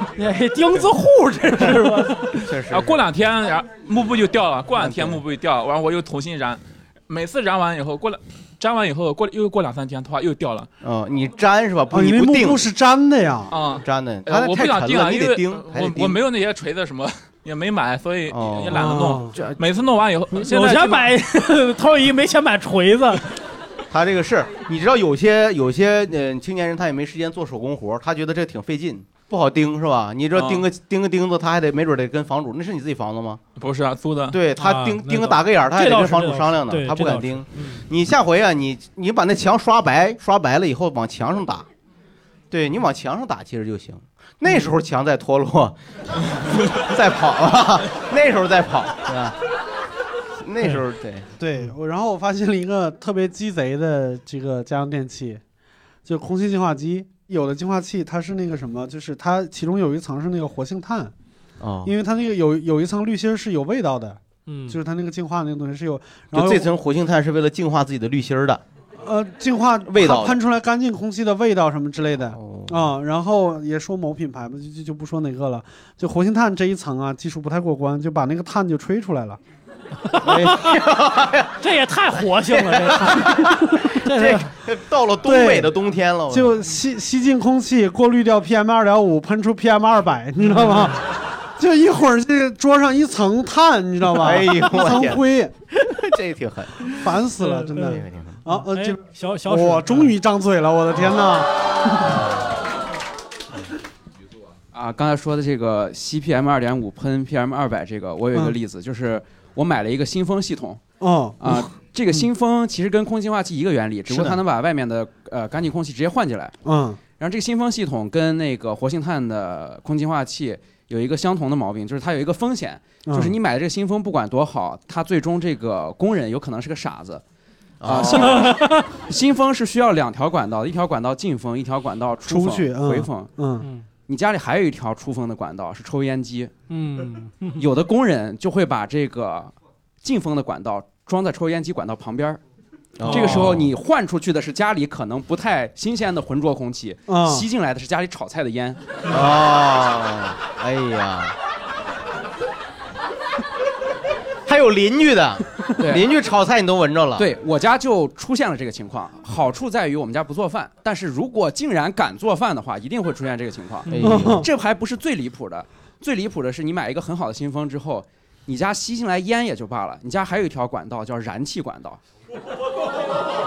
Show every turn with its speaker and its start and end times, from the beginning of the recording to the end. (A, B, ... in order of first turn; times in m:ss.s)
0:00.2-0:02.5 A
0:02.4-0:03.0 B
0:02.6-0:10.7 C
0:04.8-0:05.2 B
0:10.8-0:12.7 B
0:11.9-0:13.5 D
0:13.5-0:21.2 C
0:13.8-0:16.2 B
0:18.3-0:19.5 B
0:18.8-0:19.3 D
0:20.3-0:23.3 A
0:23.9-0:33.4 B
0:30.3-0:30.6 C
0:33.6-0:34.4 C
0:34.3-0:41.7 B
0:34.6-0:37.8 A
0:42.5-0:49.4 B
0:50.4-0:51.3 B
0:51.4-0:55.4 D
0:56.0-1:01.1 D
1:01.6-1:01.9 B
1:01.8-1:06.7 D
1:04.5-1:04.8 A
1:06.3-1:08.6 B
1:09.0-1:19.4 D
1:09.9-1:10.4 B
1:12.4-1:12.9 B
1:20.1-1:20.8 A
1:20.2-1:21.5 B
1:21.6-1:24.5 A
1:22.6-1:26.6 B
1:25.2-1:25.7 D
1:26.3-1:31.0 D
1:30.5-1:30.9 A
1:31.6-1:35.5 D
1:34.1-1:36.9 B
1:36.9-1:41.5 D
1:37.4-1:37.9 A
1:37.8-1:38.4 B
1:38.5-1:40.2 A
1:44.7-1:50.8 E
1:51.0-1:51.6 D
1:51.4-1:56.6 E
1:54.1-1:54.4 D
1:56.6-1:57.0 D
1:57.2-2:07.2 E
2:03.1-2:03.4 D
2:07.8-2:08.4 B
2:07.8-2:13.3 E
2:08.1-2:08.9 A
2:12.3-2:13.7 D
2:13.6-2:13.9 A
2:14.1-2:16.5 E
2:16.7-2:17.7 A
2:17.6-2:22.4 E
2:23.0-2:23.7 B
2:23.0-2:29.2 E
2:23.1-2:23.4 A
2:27.1-2:27.4 D
2:29.1-2:31.4 B
2:34.5-2:37.3 B
2:35.8-2:36.1 E
2:37.2-2:52.0 E
2:43.9-2:44.4 B
2:44.0-2:44.5 D